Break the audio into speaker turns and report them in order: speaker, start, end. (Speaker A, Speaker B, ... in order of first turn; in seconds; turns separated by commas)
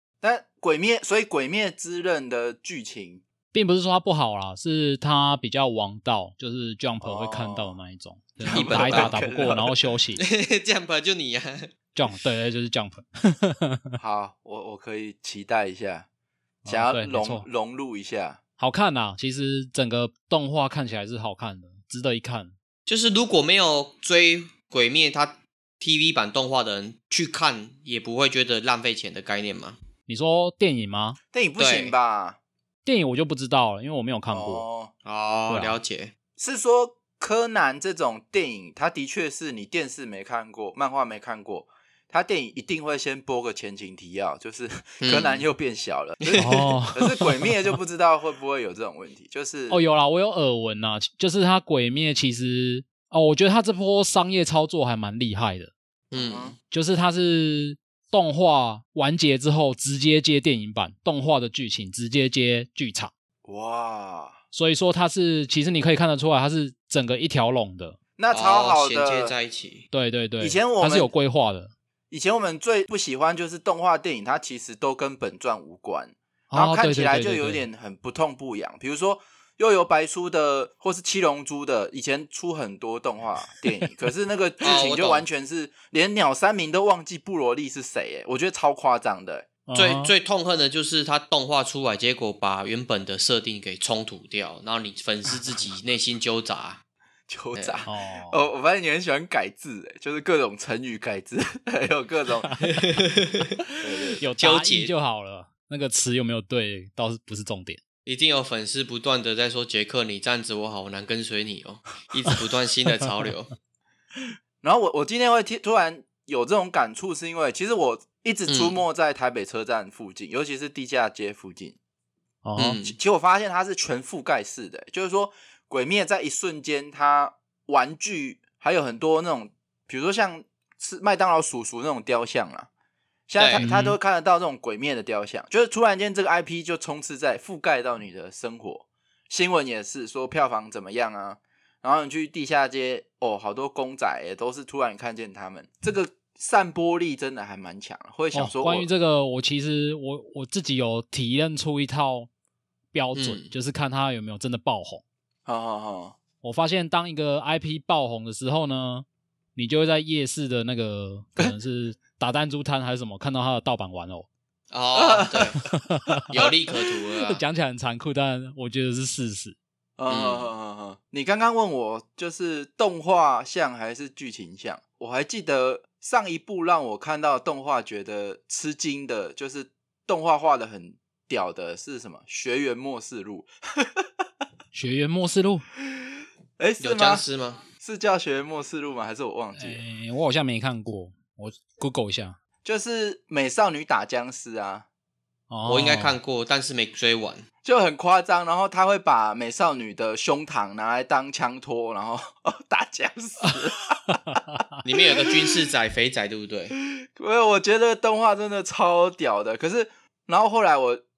Speaker A: 0.2-3.2, Speaker B: 3.5-10.2, Speaker A: 7.0-7.8, Speaker A: 8.4-9.7, Speaker C: 8.4-9.2, Speaker C: 10.2-11.7, Speaker B: 11.9-13.8, Speaker A: 14.0-16.1, Speaker B: 16.6-17.5, Speaker A: 16.6-18.4, Speaker B: 18.6-22.5, Speaker C: 22.9-29.8, Speaker B: 30.1-31.2, Speaker A: 31.3-32.4, Speaker C: 31.6-31.9, Speaker B: 32.8-34.6, Speaker A: 34.3-34.9, Speaker C: 35.0-36.1, Speaker B: 35.5-35.8, Speaker A: 36.4-49.8, Speaker C: 45.0-45.4, Speaker C: 46.2-46.7, Speaker B: 46.4-47.5, Speaker B: 49.7-55.7, Speaker C: 56.1-56.5, Speaker A: 56.1-56.5, Speaker B: 56.7-63.1, Speaker A: 63.4-64.4, Speaker B: 64.5-68.0, Speaker A: 68.2-69.3, Speaker C: 68.3-69.8, Speaker B: 69.9-71.7, Speaker A: 70.4-71.1, Speaker A: 72.1-89.5, Speaker B: 76.5-77.7, Speaker C: 84.6-85.3, Speaker B: 89.7-90.1, Speaker C: 89.7-96.8, Speaker A: 97.3-102.7, Speaker C: 97.5-97.8, Speaker B: 97.8-98.5, Speaker C: 102.8-103.5, Speaker A: 103.8-104.2, Speaker B: 104.2-107.8, Speaker C: 104.3-104.9, Speaker C: 108.0-113.5, Speaker A: 114.6-121.8, Speaker C: 118.5-118.8, Speaker B: 122.4-122.8, Speaker C: 122.5-123.0, Speaker A: 122.8-132.7, Speaker A: 133.3-148.9, Speaker C: 133.4-133.7, Speaker B: 133.6-134.0, Speaker B: 148.3-152.3, Speaker B: 152.9-155.0, Speaker C: 153.1-153.5, Speaker A: 155.4-156.2, Speaker B: 156.4-164.3, Speaker C: 164.7-165.6, Speaker A: 164.9-165.5, Speaker B: 165.6-166.2, Speaker C: 166.3-167.4, Speaker B: 167.2-169.6, Speaker A: 170.0-183.5, Speaker C: 170.1-170.5, Speaker B: 184.7-185.6, Speaker A: 186.6-189.8, Speaker C: 186.8-187.7, Speaker B: 189.6-192.4, Speaker A: 192.6-194.8, Speaker B: 195.5-196.2, Speaker C: 195.7-197.4, Speaker A: 197.6-204.4, Speaker C: 204.8-206.7, Speaker A: 207.2-211.0